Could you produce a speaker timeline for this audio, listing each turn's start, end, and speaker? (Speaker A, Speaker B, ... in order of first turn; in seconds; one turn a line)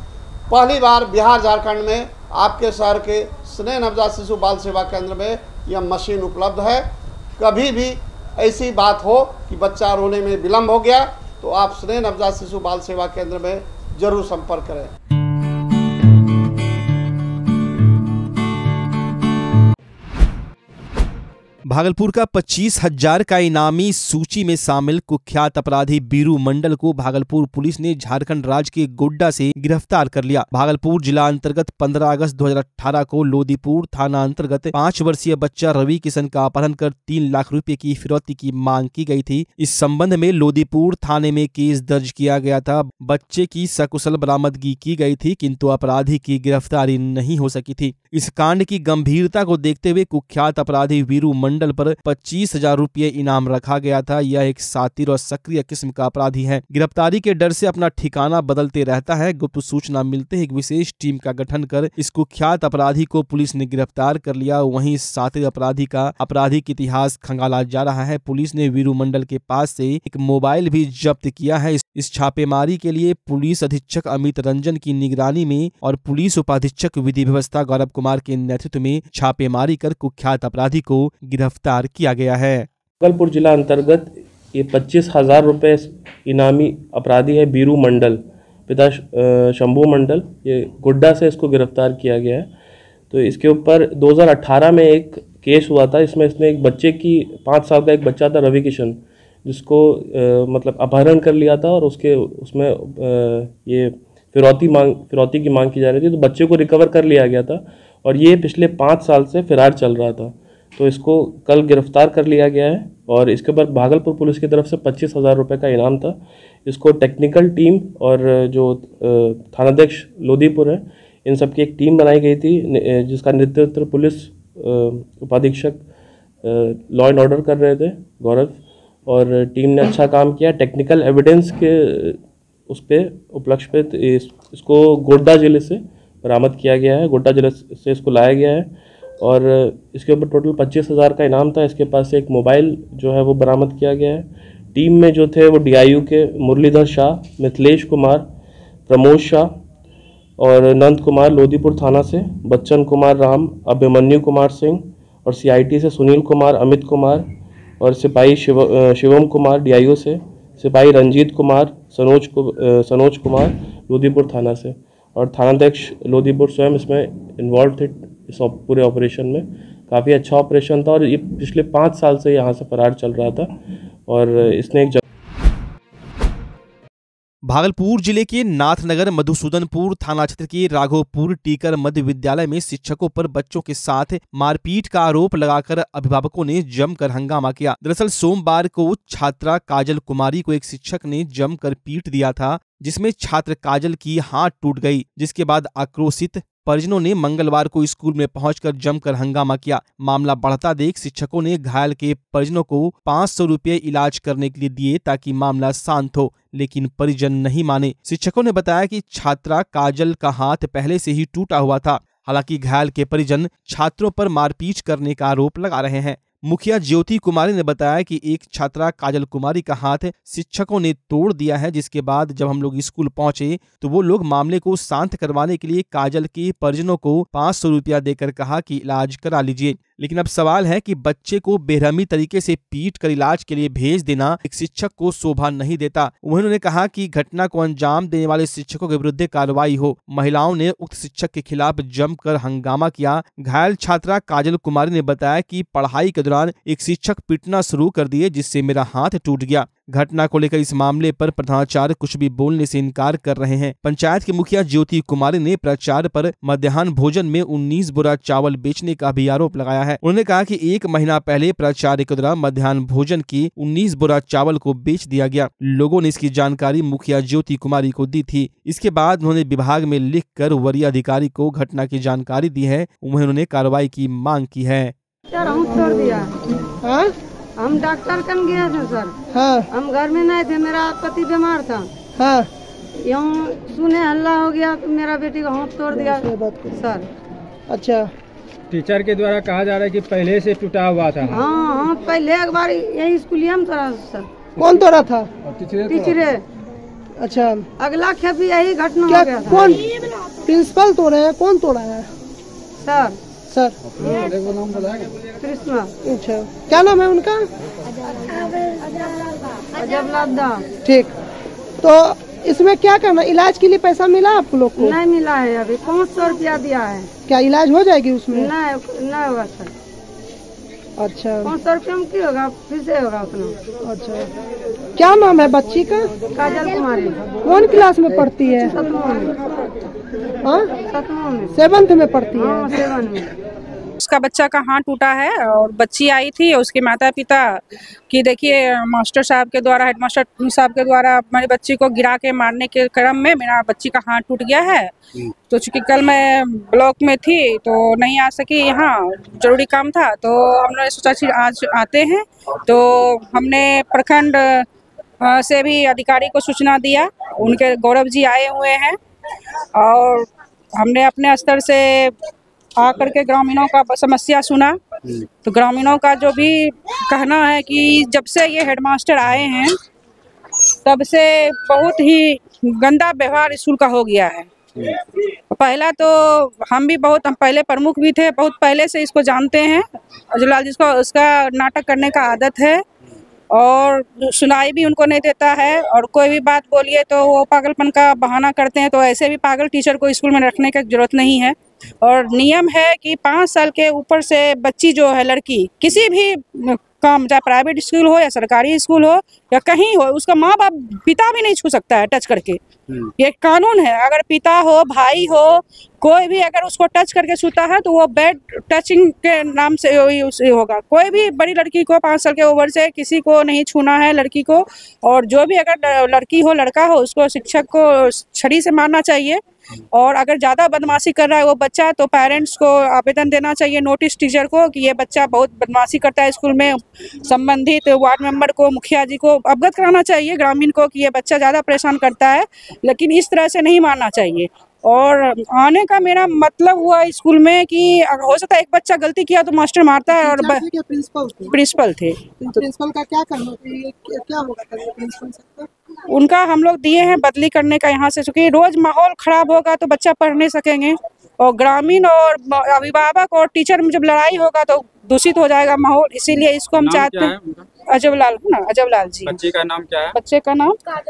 Speaker A: 0.5-6.9
Speaker A: 7.4-14.9
Speaker B: 21.7-82.7
Speaker C: 83.0-92.5
Speaker C: 93.1-125.8
Speaker C: 126.4-148.3
Speaker C: 148.9-149.5
Speaker C: 150.4-157.3
Speaker C: 157.8-173.6
Speaker C: 174.1-175.0
Speaker B: 177.5-274.9
Speaker D: 275.3-276.4
Speaker E: 275.7-276.1
Speaker E: 276.7-277.1
Speaker D: 277.6-279.1
Speaker E: 279.3-279.7
Speaker D: 279.7-281.9
Speaker E: 282.2-282.5
Speaker D: 283.1-287.1
Speaker E: 285.9-286.8
Speaker E: 287.7-288.1
Speaker F: 288.7-291.3
Speaker D: 291.3-294.3
Speaker E: 294.6-295.3
Speaker D: 295.8-296.4
Speaker E: 297.2-297.7
Speaker D: 297.8-299.8
Speaker E: 299.1-299.9
Speaker E: 300.5-302.1
Speaker D: 302.8-303.2
Speaker E: 303.5-303.9
Speaker D: 304.0-304.6
Speaker D: 305.4-305.9
Speaker E: 306.0-307.5
Speaker D: 308.2-308.4
Speaker D: 309.7-310.6
Speaker E: 310.8-311.1
Speaker E: 311.8-315.0
Speaker D: 314.8-317.1
Speaker E: 317.3-318.5
Speaker D: 318.3-319.7
Speaker E: 321.0-321.5
Speaker D: 321.4-323.6
Speaker E: 323.8-324.3
Speaker E: 325.0-326.1
Speaker D: 326.3-327.3
Speaker E: 327.4-328.8
Speaker D: 328.5-329.4
Speaker E: 330.4-330.7
Speaker D: 330.8-331.6
Speaker E: 331.5-332.9
Speaker D: 332.3-333.3
Speaker G: 334.0-344.9
Speaker G: 345.5-354.7
Speaker G: 355.2-359.0
Speaker G: 359.8-360.3
Speaker G: 360.8-362.1
Speaker G: 362.8-364.8
Speaker G: 365.4-369.8
Speaker G: 370.9-374.5
Speaker G: 375.5-382.8
Speaker G: 383.5-402.6
Speaker G: 403.2-419.4
Speaker G: 419.9-440.6
Speaker E: 440.1-441.6
Speaker G: 441.5-442.2
Speaker E: 442.4-445.7
Speaker G: 446.1-457.4
Speaker F: 456.7-457.6
Speaker G: 457.9-459.4
Speaker F: 459.2-460.2
Speaker G: 460.1-460.8